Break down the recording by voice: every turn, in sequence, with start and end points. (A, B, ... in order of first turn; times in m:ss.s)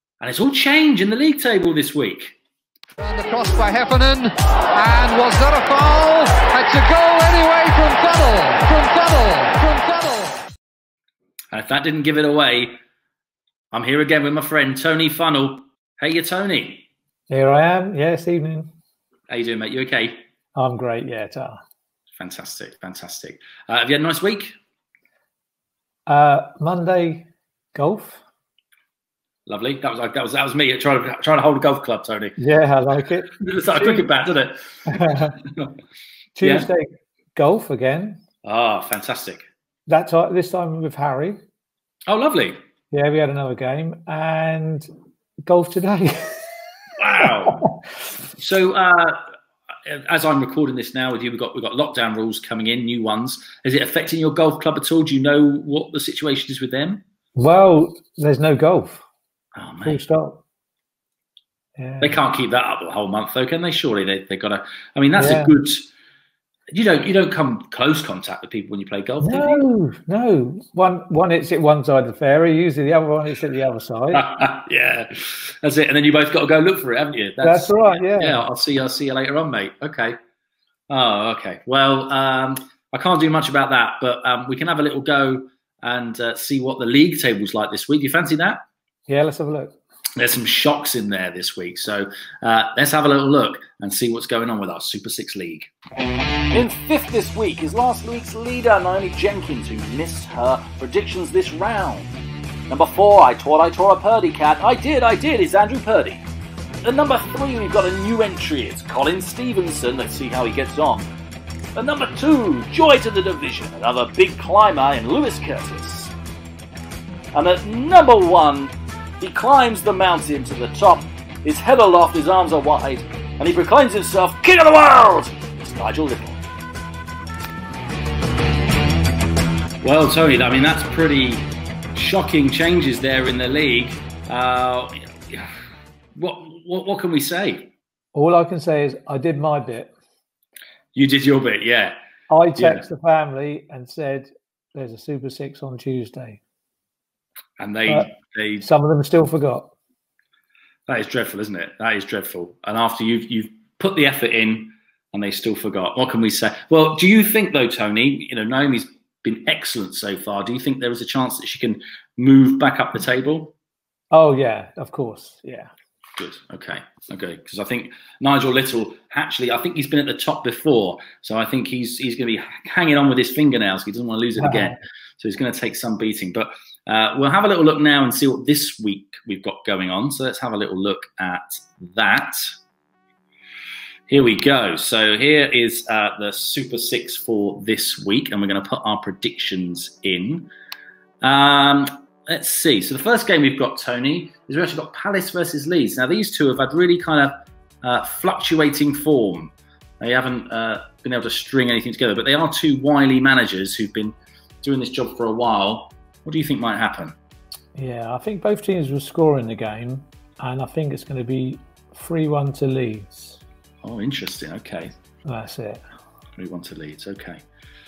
0:00.2-0:02.4 A
0:03.0-0:10.4 B
0:11.5-0:12.7 A
0:13.7-0:16.9 A
0:17.3-0:18.7 C
0:19.3-0:20.2 A
0:20.6-0:21.6 C
0:22.2-0:24.5 A
0:26.1-0:28.2 C
0:29.5-0:32.4 A
0:32.4-0:34.1 C
0:33.4-0:35.7 A
0:34.9-0:35.4 C
0:36.4-0:38.2 C
0:36.4-0:36.7 A
0:38.4-0:39.4 A
0:39.9-0:41.4 C
0:42.1-0:42.6 A
0:42.9-0:44.9 C
0:45.5-0:46.4 C
0:47.0-0:47.7 A
0:47.2-0:47.7 C
0:48.4-0:49.2 A
0:49.8-0:57.0 A
0:57.4-0:59.0 C
0:59.6-1:00.0 A
0:59.8-1:00.4 C
1:01.8-1:02.2 C
1:02.0-1:05.9 A
1:05.2-1:05.6 C
1:06.7-1:09.7 A
1:09.2-1:14.3 C
1:14.1-1:20.2 A
1:17.4-1:18.4 C
1:20.9-1:28.6 A
1:29.1-1:29.8 C
1:30.2-1:35.7 A
1:36.5-1:42.1 A
1:42.7-1:46.2 A
1:46.8-1:51.1 A
1:51.8-1:56.1 A
1:57.3-2:06.4 A
2:09.8-2:15.5 A
2:16.2-2:17.7 A
2:18.1-2:19.9 C
2:21.0-2:22.0 A
2:22.3-2:26.4 C
2:22.6-2:22.8 A
2:27.6-2:28.7 A
2:28.6-2:29.7 C
2:30.9-2:43.6 A
2:44.1-2:45.7 C
2:46.2-3:02.4 A
2:54.4-2:54.8 C
3:04.1-3:10.5 A
3:11.2-3:27.2 A
3:27.8-3:33.4 C
3:33.8-3:34.9 A
3:35.3-3:35.8 C
3:36.4-3:37.4 A